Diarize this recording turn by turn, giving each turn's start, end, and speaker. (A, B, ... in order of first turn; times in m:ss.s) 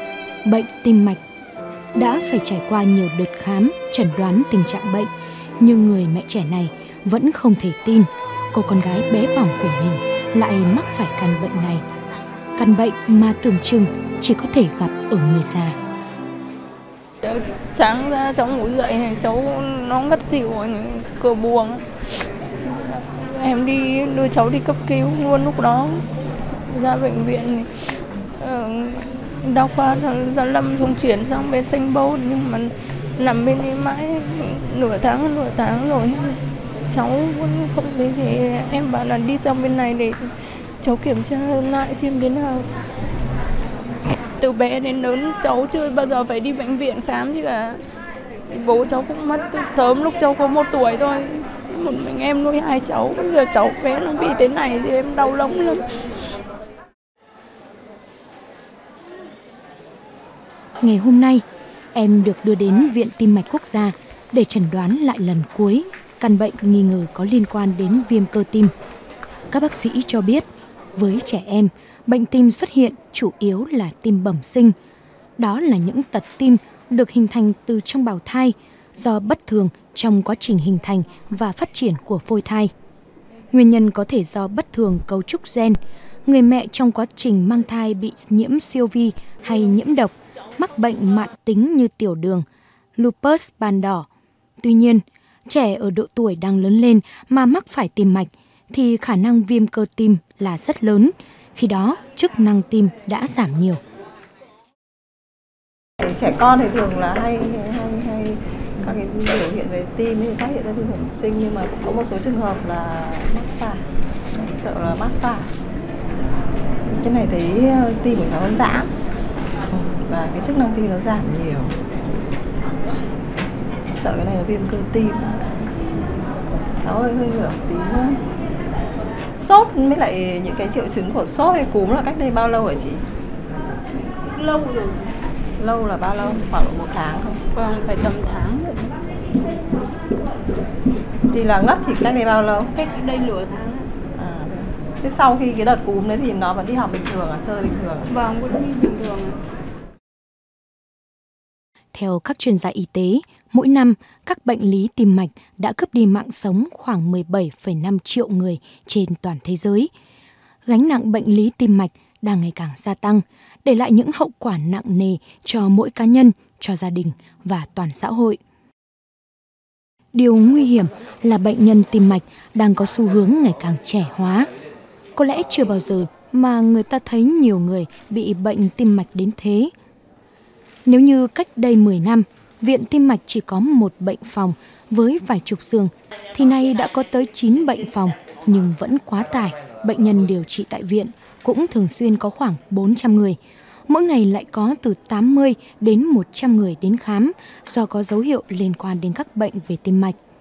0:00.4-0:01.2 A
0:02.0-0:11.8 A
0:12.6-0:15.8 A
0:17.2-0:21.8 B
0:22.6-0:26.0 B
0:26.7-0:27.7 B
0:28.4-0:36.4 B
0:36.9-0:40.3 B
0:40.8-0:42.7 B
0:44.4-0:47.8 B
0:48.5-0:55.9 B
1:00.8-1:08.7 A
1:09.5-1:14.8 A
1:15.4-1:22.7 A
1:23.5-1:32.4 A
1:33.0-1:34.1 A
1:34.6-1:43.8 A
1:46.0-1:55.5 C
1:56.9-1:58.9 C
1:59.7-2:01.8 C
2:03.9-2:05.4 C
2:06.8-2:08.2 C
2:09.4-2:13.0 C
2:14.2-2:15.1 B
2:15.6-2:17.4 C
2:17.5-2:19.0 B
2:21.3-2:22.7 C
2:22.8-2:23.9 B
2:24.1-2:28.1 C
2:28.1-2:29.4 B
2:32.0-2:39.9 A
2:40.7-2:48.4 A
2:50.1-2:54.5 A
2:55.2-2:59.7 A
3:00.9-3:20.2 A